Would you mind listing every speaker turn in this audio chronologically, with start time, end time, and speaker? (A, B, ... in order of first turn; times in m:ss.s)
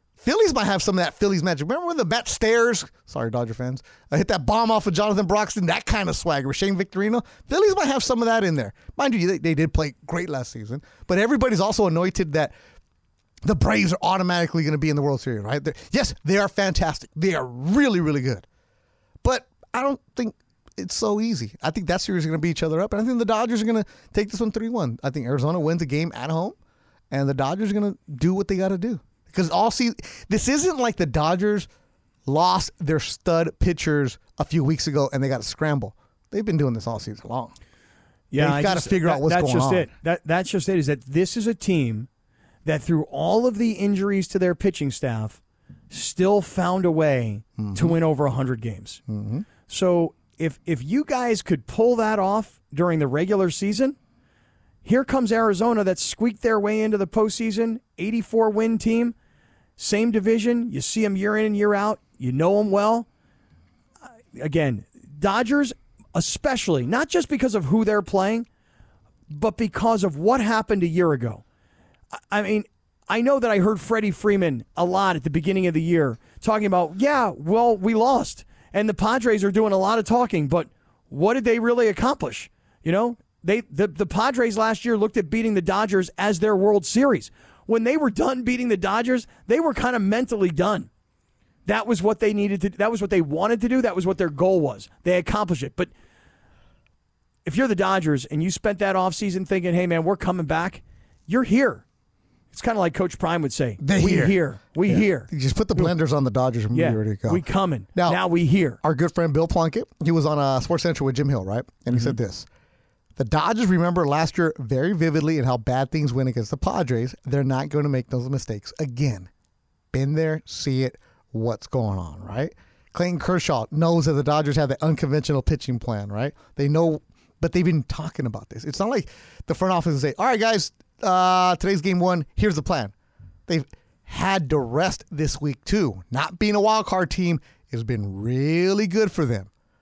0:00.2-0:12.5 A
0:13.4-0:18.4 A
0:19.2-0:26.6 A
0:27.1-0:31.7 A
0:32.2-0:37.5 A
0:38.3-0:42.1 B
0:38.4-0:39.9 A
0:42.6-0:45.4 B
0:45.9-0:49.0 B
0:47.6-0:48.0 A
0:49.1-0:49.5 A
0:49.6-0:54.0 B
0:54.8-0:59.1 B
0:59.8-1:03.1 B
1:04.3-1:08.4 B
1:09.3-1:11.4 B
1:12.3-1:30.9 B
1:31.6-1:35.9 B
1:37.4-1:41.8 B
1:42.5-1:45.9 B
1:43.8-1:48.2 A
1:46.7-1:48.8 B
1:48.8-1:52.5 A
1:53.2-1:59.3 A
1:59.9-2:12.9 A
2:13.5-2:19.5 A